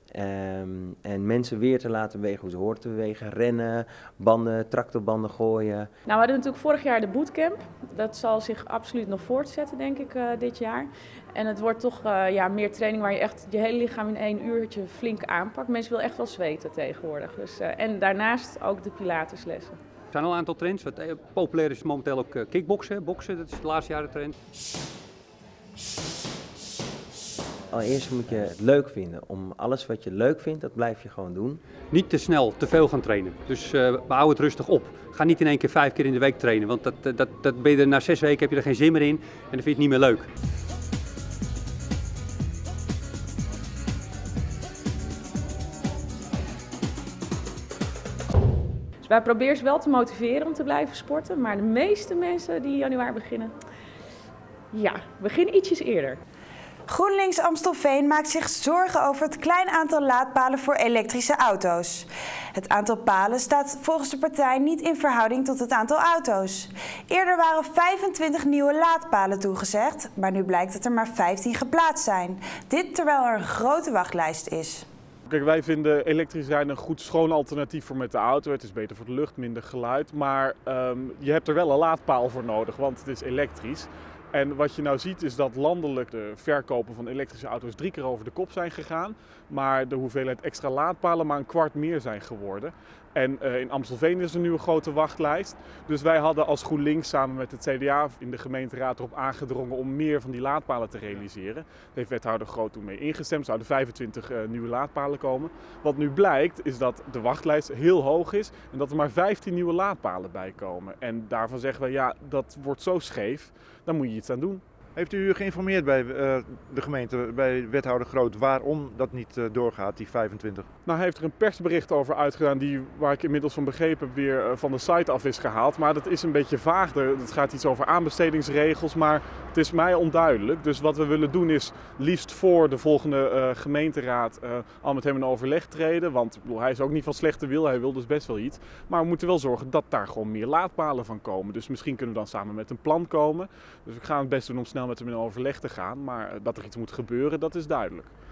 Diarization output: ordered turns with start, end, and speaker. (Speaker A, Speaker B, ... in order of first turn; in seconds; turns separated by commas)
Speaker A: 0.2-5.9, Speaker B: 6.1-19.8, Speaker C: 20.1-24.3, Speaker A: 27.8-31.6, Speaker C: 31.9-40.3, Speaker B: 49.0-53.5, Speaker B: 54.7-56.2, Speaker D: 56.9-74.8, Speaker E: 75.3-114.6, Speaker F: 115.0-120.7, Speaker E: 120.8-148.1